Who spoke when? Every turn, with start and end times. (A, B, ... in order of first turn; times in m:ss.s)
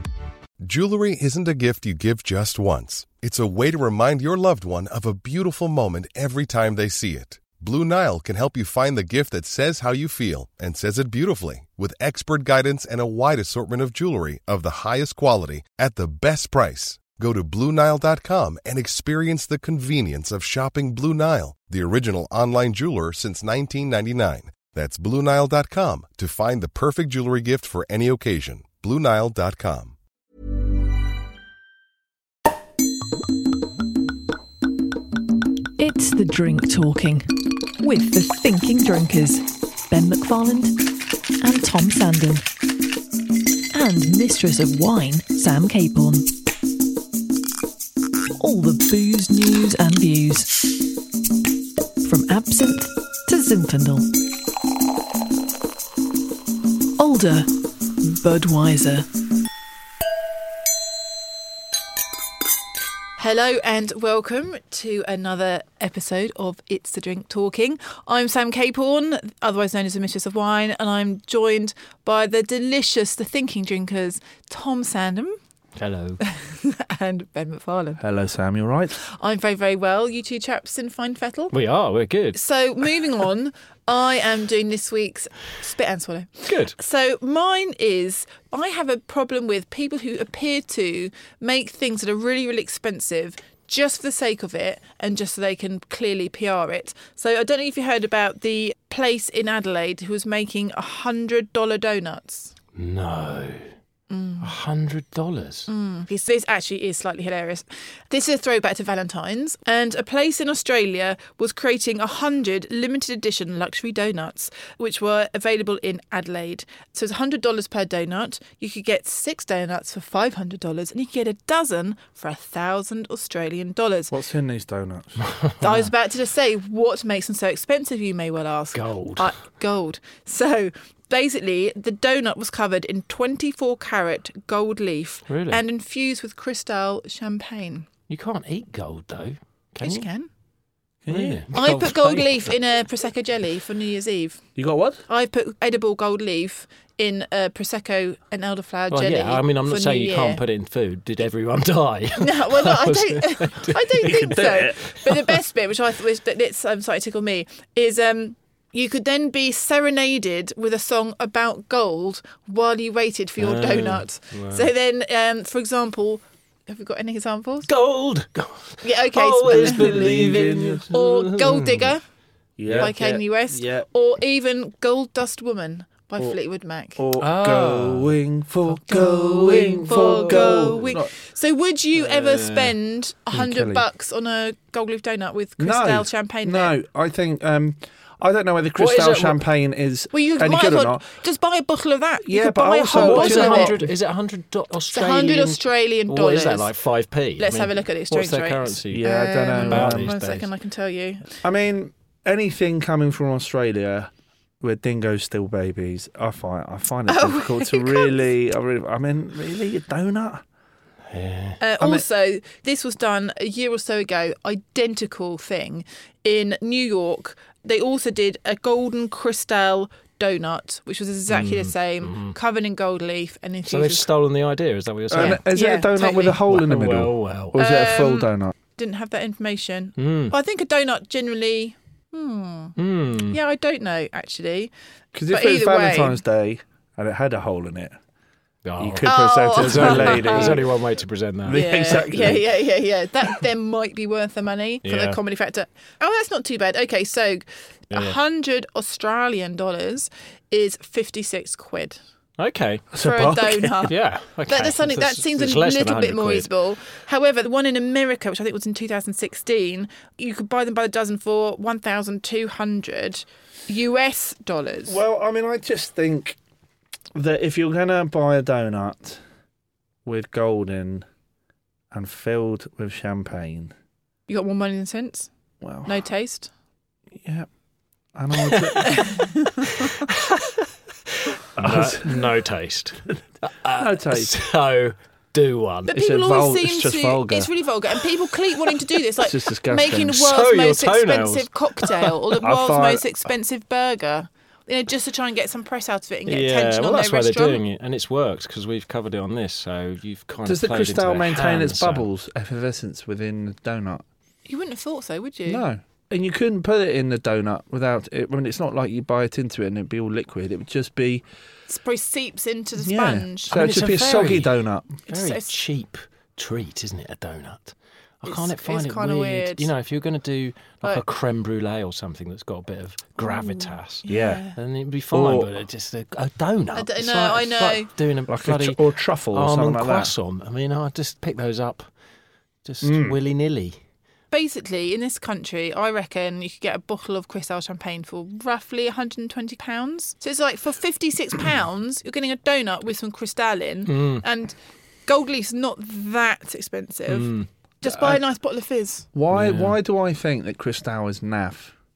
0:00.6-0:30.0 A
0:35.8-0:40.8 B
0:41.4-0:42.5 B
0:43.7-0:46.3 B
0:48.4-0:50.6 B
0:52.0-0:54.1 B
0:57.0-0:57.5 B
0:58.0-0:59.1 B
1:03.2-1:15.4 C
1:15.8-1:16.2 D
1:16.2-1:18.0 C
1:18.0-1:18.9 E
1:19.0-1:21.6 C
1:21.5-1:22.4 D
1:22.3-1:42.5 C
1:26.5-1:26.8 D
1:42.8-1:43.8 D
1:44.1-1:44.5 C
1:44.4-1:45.7 D
1:45.7-2:04.1 C
2:04.1-2:05.2 E
2:05.5-2:05.9 D
2:05.6-2:17.9 C
2:08.7-2:09.4 D
2:15.3-2:15.6 D
2:18.1-2:20.1 D
2:19.8-2:20.3 C
2:21.0-2:21.4 E
2:21.1-2:22.5 D
2:21.5-2:24.4 C
2:24.6-2:25.0 E
2:25.1-2:30.4 C
2:28.9-2:35.3 D
2:32.2-2:47.7 C
2:34.0-2:34.8 E
2:43.4-2:44.7 D
2:47.7-2:52.0 D
2:48.8-2:50.4 C
2:49.4-2:50.9 E
2:50.9-2:52.0 C
2:52.6-2:53.9 E
2:52.7-2:52.9 D
2:52.8-2:57.0 C
2:57.0-3:01.1 E
2:57.2-2:58.2 D
2:58.7-3:06.7 C
2:59.3-3:01.0 D
3:02.0-3:02.8 D
3:03.3-3:03.8 E
3:05.6-3:11.1 E
3:08.8-3:09.4 D
3:10.1-3:13.8 C
3:12.2-3:13.9 E
3:12.9-3:20.5 D
3:14.9-3:16.7 C
3:17.4-3:21.3 C
3:18.9-3:20.1 E
3:21.4-3:30.4 E
3:27.1-3:28.2 C
3:31.1-3:31.6 D
3:31.6-3:44.1 C
3:31.8-3:32.1 E
3:41.3-3:42.4 D
3:43.7-3:45.4 D
3:45.1-3:48.6 E
3:45.2-3:46.4 C
3:46.5-3:47.6 D
3:47.6-3:52.8 C
3:50.0-3:50.4 D
3:52.8-3:53.4 D
3:53.3-3:54.7 C
3:55.1-3:58.0 E
3:55.3-3:56.2 C
3:58.6-4:02.4 D
3:58.8-4:00.7 E
3:59.0-4:00.6 C
4:01.5-4:02.5 E
4:01.5-4:12.0 C
4:04.8-4:05.2 D
4:07.9-4:08.2 D
4:12.4-4:12.9 D
4:12.9-4:14.0 E
4:13.0-4:13.9 C
4:13.9-4:16.5 D
4:14.5-4:25.0 C
4:24.9-4:26.4 E
4:27.2-4:29.2 E
4:30.0-4:31.1 E
4:31.9-4:33.7 E
4:34.3-4:35.3 C
4:35.6-4:36.0 E
4:35.9-4:36.5 C
4:37.2-4:37.5 E
4:38.2-4:39.1 E
4:38.5-4:38.8 D
4:38.9-4:39.5 C
4:41.6-4:42.2 E
4:41.6-4:46.0 D
4:43.8-4:44.3 E
4:45.9-4:57.6 C
4:45.9-4:47.5 E
4:49.2-4:50.2 E
4:50.1-4:52.1 D
4:52.4-4:53.0 E
4:56.3-5:02.1 D
5:00.5-5:04.0 E
5:04.5-5:05.6 C
5:05.5-5:11.2 E
5:11.7-5:13.5 C
5:12.8-5:15.0 E
5:13.5-5:28.8 D
5:15.1-5:15.5 C
5:18.3-5:19.7 C
5:23.3-5:24.6 C
5:24.1-5:24.4 E
5:25.1-5:25.5 E
5:26.7-5:27.9 C
5:28.3-5:30.1 E
5:29.3-5:31.9 D
5:32.6-5:33.8 D
5:32.8-5:33.2 E
5:34.3-5:49.1 C
5:43.9-5:44.2 D
5:47.1-5:47.5 D
5:47.8-5:48.2 E
5:49.1-5:51.7 E
5:49.3-5:49.8 D